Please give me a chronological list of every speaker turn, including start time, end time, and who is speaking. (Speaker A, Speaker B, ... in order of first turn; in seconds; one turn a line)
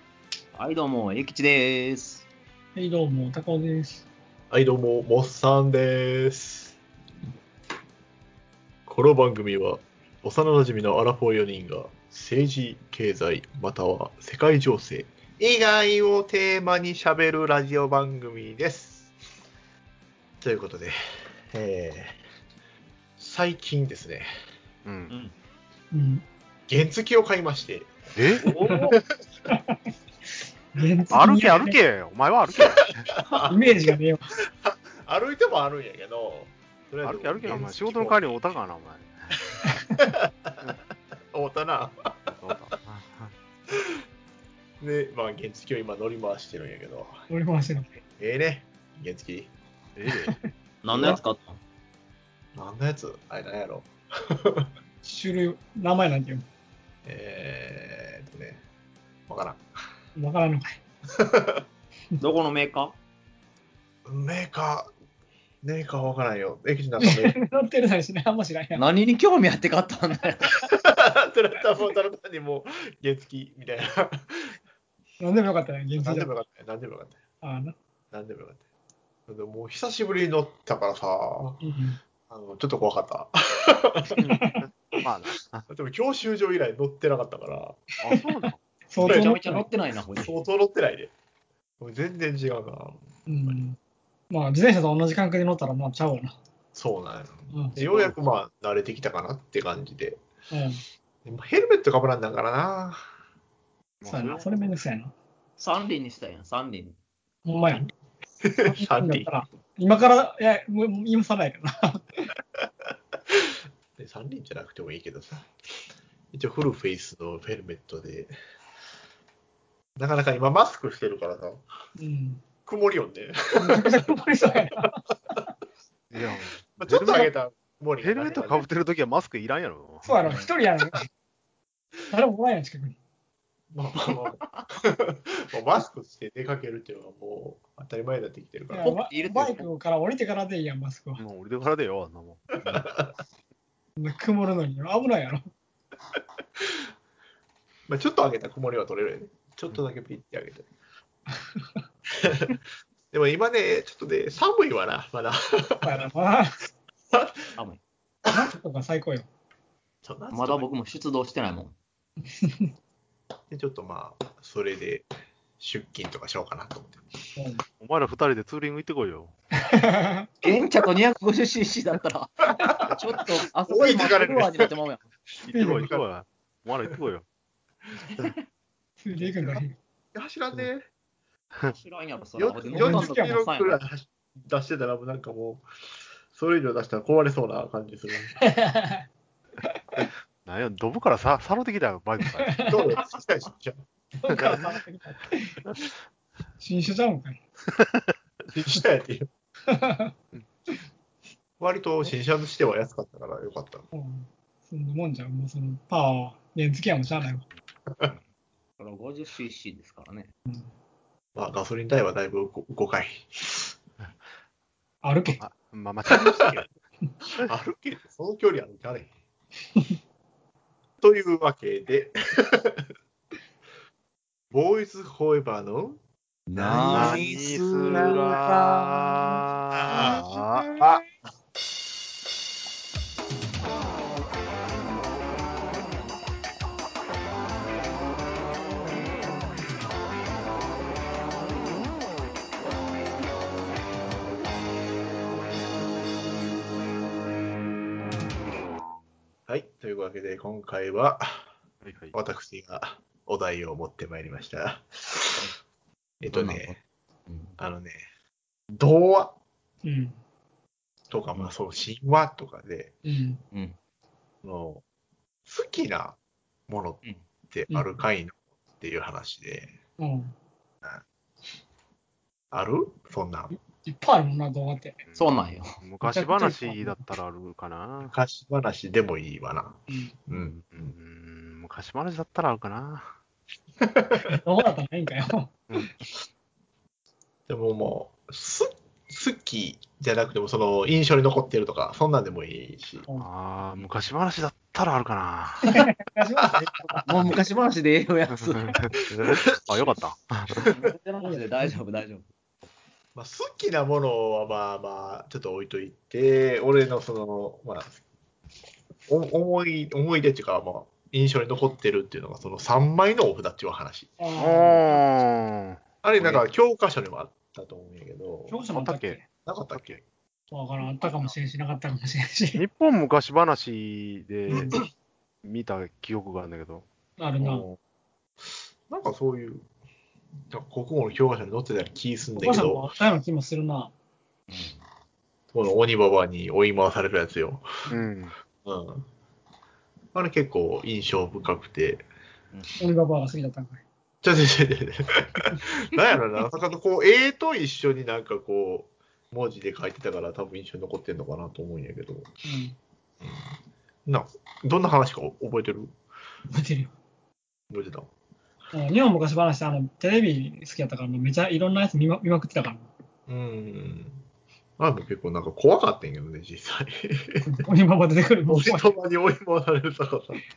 Speaker A: 0.5-2.2
Speaker B: 2.8-4.0
Speaker C: 4.5-6.8
Speaker C: 8.9-19.1
Speaker C: 20.4-21.0
Speaker C: 21.5-22.2
Speaker C: 23.2-24.3
Speaker D: 24.8-25.1
Speaker B: 25.9-26.2
Speaker C: 26.7-27.9
Speaker D: 28.1-28.5
Speaker A: 28.4-28.9
Speaker B: 29.5-29.8
Speaker B: 30.7-31.8
Speaker D: 31.1-33.1
Speaker C: 32.6-33.7
Speaker B: 33.5-34.3
Speaker C: 34.6-38.3
Speaker D: 37.0-39.1
Speaker C: 40.0-40.6
Speaker C: 41.3-42.3
Speaker D: 42.4-43.3
Speaker C: 44.8-47.2
Speaker B: 47.3-47.9
Speaker C: 48.2-49.5
Speaker D: 50.0-50.4
Speaker A: 50.8-51.6
Speaker C: 50.9-51.2
Speaker C: 52.5-54.7
Speaker B: 55.0-56.4
Speaker C: 57.0-58.6
Speaker C: 59.3-59.6
Speaker B: 60.1-60.8
Speaker C: 61.1-61.6
Speaker A: 62.2-63.0
Speaker C: 64.0-64.9
Speaker C: 65.6-67.3
Speaker B: 67.0-68.8
Speaker A: 68.8-70.6
Speaker C: 70.6-74.6
Speaker B: 75.2-76.3
Speaker C: 76.0-77.2
Speaker B: 77.4-77.7
Speaker C: 78.1-78.6
Speaker C: 79.3-81.6
Speaker B: 81.6-82.0
Speaker C: 82.3-84.2
Speaker D: 84.2-85.7
Speaker C: 85.7-87.8
Speaker D: 88.0-88.6
Speaker B: 88.1-89.7
Speaker C: 89.0-89.3
Speaker A: 89.0-90.4
Speaker C: 90.2-91.1
Speaker C: 91.8-93.6
Speaker B: 93.3-93.8
Speaker B: 94.3-96.3
Speaker C: 96.7-100.2
Speaker B: 97.5-97.8
Speaker A: 97.8-98.1
Speaker B: 100.5-100.8
Speaker C: 101.2-103.0
Speaker D: 104.0-104.6
Speaker B: 104.0-105.1
Speaker A: 105.6-107.0
Speaker B: 107.5-107.9
Speaker C: 108.4-109.3
Speaker B: 108.7-112.3
Speaker C: 114.0-115.5
Speaker C: 116.3-118.3
Speaker C: 120.0-121.6
Speaker B: 122.0-122.4
Speaker C: 122.7-124.1
Speaker B: 123.5-125.0
Speaker D: 126.1-127.3
Speaker C: 126.8-128.7
Speaker D: 128.0-130.1
Speaker B: 130.0-131.1
Speaker B: 132.1-133.0
Speaker C: 133.7-138.9
Speaker B: 138.7-141.2
Speaker A: 138.8-139.7
Speaker D: 141.2-142.8
Speaker C: 142.6-143.1
Speaker B: 144.0-145.4
Speaker C: 147.9-150.7
Speaker C: 152.1-156.1
Speaker B: 155.8-156.7
Speaker C: 157.1-157.4
Speaker B: 158.3-159.3
Speaker C: 160.0-160.7
Speaker A: 160.3-161.7
Speaker B: 162.4-162.7
Speaker C: 163.5-165.1
Speaker C: 165.6-167.0
Speaker B: 167.3-167.6
Speaker D: 167.8-169.3
Speaker B: 169.7-170.3
Speaker A: 170.4-175.0
Speaker C: 172.6-173.0
Speaker C: 173.7-174.7
Speaker D: 175.4-177.2
Speaker B: 175.5-175.9
Speaker C: 175.7-176.0
Speaker A: 178.1-178.4
Speaker B: 179.0-179.7
Speaker C: 179.2-179.6
Speaker C: 180.1-180.9
Speaker A: 181.7-183.8
Speaker C: 182.4-185.7
Speaker B: 182.7-183.4
Speaker C: 186.3-188.3
Speaker B: 188.4-189.0
Speaker D: 190.0-192.7
Speaker B: 192.4-193.0
Speaker C: 192.6-193.8
Speaker B: 194.2-195.6
Speaker B: 196.6-197.4
Speaker D: 197.8-198.1
Speaker C: 198.5-199.3
Speaker B: 199.7-200.1
Speaker C: 201.6-203.9
Speaker B: 203.9-207.4
Speaker A: 208.8-210.3
Speaker C: 211.3-213.7
Speaker B: 215.0-215.4
Speaker D: 215.4-216.7
Speaker C: 216.1-216.6
Speaker C: 217.3-219.1
Speaker C: 221.0-222.8
Speaker C: 224.5-226.0
Speaker A: 226.5-229.0
Speaker C: 226.5-228.3
Speaker D: 226.6-230.7
Speaker C: 229.8-231.0
Speaker C: 249.5-251.4
Speaker D: 251.8-252.1
Speaker C: 252.1-255.5
Speaker C: 256.2-256.8
Speaker A: 256.3-256.7
Speaker A: 257.3-257.5
Speaker C: 257.6-258.0
Speaker C: 258.7-259.4
Speaker B: 259.8-260.1
Speaker C: 261.1-262.9
Speaker B: 263.0-263.4
Speaker C: 264.4-264.8
Speaker C: 265.4-266.2
Speaker C: 266.7-269.7
Speaker B: 270.0-270.3
Speaker C: 272.5-273.5
Speaker B: 273.5-275.0
Speaker D: 275.1-278.1
Speaker A: 275.1-275.8
Speaker B: 276.0-277.0
Speaker C: 278.0-280.9
Speaker B: 279.9-280.1
Speaker D: 280.6-283.1
Speaker C: 283.8-284.2
Speaker B: 284.3-285.8
Speaker C: 287.5-293.1
Speaker D: 293.1-295.7
Speaker B: 295.6-297.1
Speaker C: 296.4-297.0
Speaker A: 297.1-298.7
Speaker D: 298.4-300.7
Speaker A: 300.6-302.3
Speaker C: 303.1-308.0
Speaker C: 309.1-314.1
Speaker B: 314.2-315.0
Speaker D: 314.4-316.4
Speaker C: 316.0-318.6
Speaker B: 318.5-319.2
Speaker D: 318.7-319.2
Speaker C: 319.4-320.0
Speaker D: 319.7-320.0
Speaker B: 320.5-322.6
Speaker D: 322.6-324.8
Speaker B: 324.5-324.8
Speaker D: 325.4-326.9
Speaker B: 327.2-327.6
Speaker D: 327.4-327.8
Speaker C: 328.9-329.7
Speaker C: 330.5-332.9
Speaker B: 332.4-333.9
Speaker A: 334.5-334.8
Speaker C: 335.5-337.7
Speaker D: 337.9-338.3
Speaker C: 338.6-339.0
Speaker C: 340.1-342.1
Speaker B: 342.8-343.8
Speaker C: 344.2-352.3
Speaker B: 352.4-352.8
Speaker C: 353.2-353.5
Speaker C: 354.1-355.9
Speaker B: 356.5-356.9
Speaker C: 357.7-358.1
Speaker B: 358.7-362.9
Speaker C: 363.3-364.2
Speaker C: 364.8-367.5
Speaker B: 367.4-368.9
Speaker C: 368.5-370.4